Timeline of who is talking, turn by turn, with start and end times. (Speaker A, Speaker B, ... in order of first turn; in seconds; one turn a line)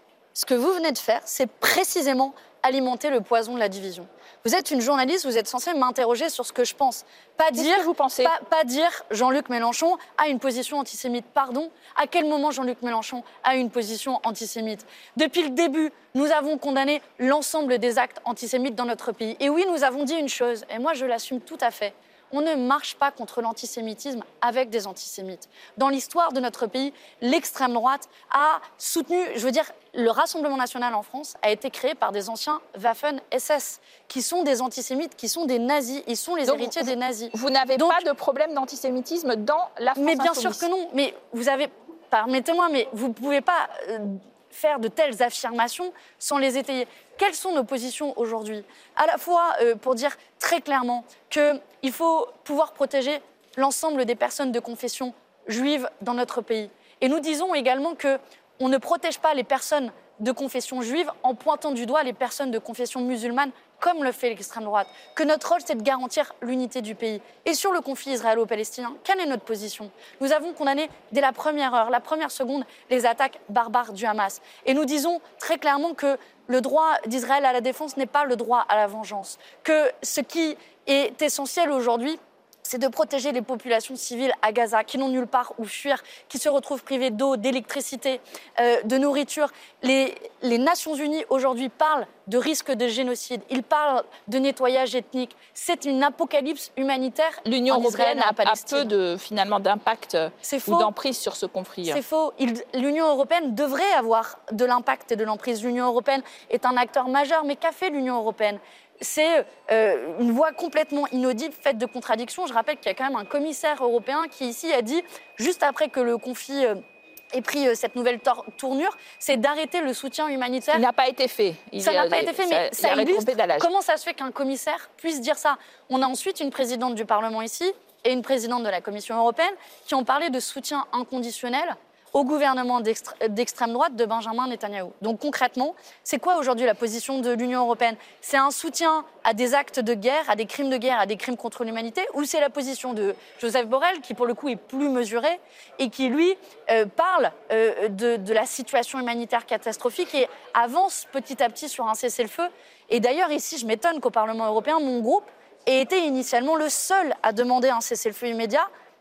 Speaker A: 0.3-38.1
Speaker B: 7.5-8.3
Speaker B: 36.4-40.6
Speaker A: 40.0-98.9
Speaker B: 97.5-102.0
Speaker A: 100.4-100.9
Speaker A: 101.9-116.8
Speaker A: 117.3-120.8
Speaker B: 120.7-123.7
Speaker A: 121.8-158.7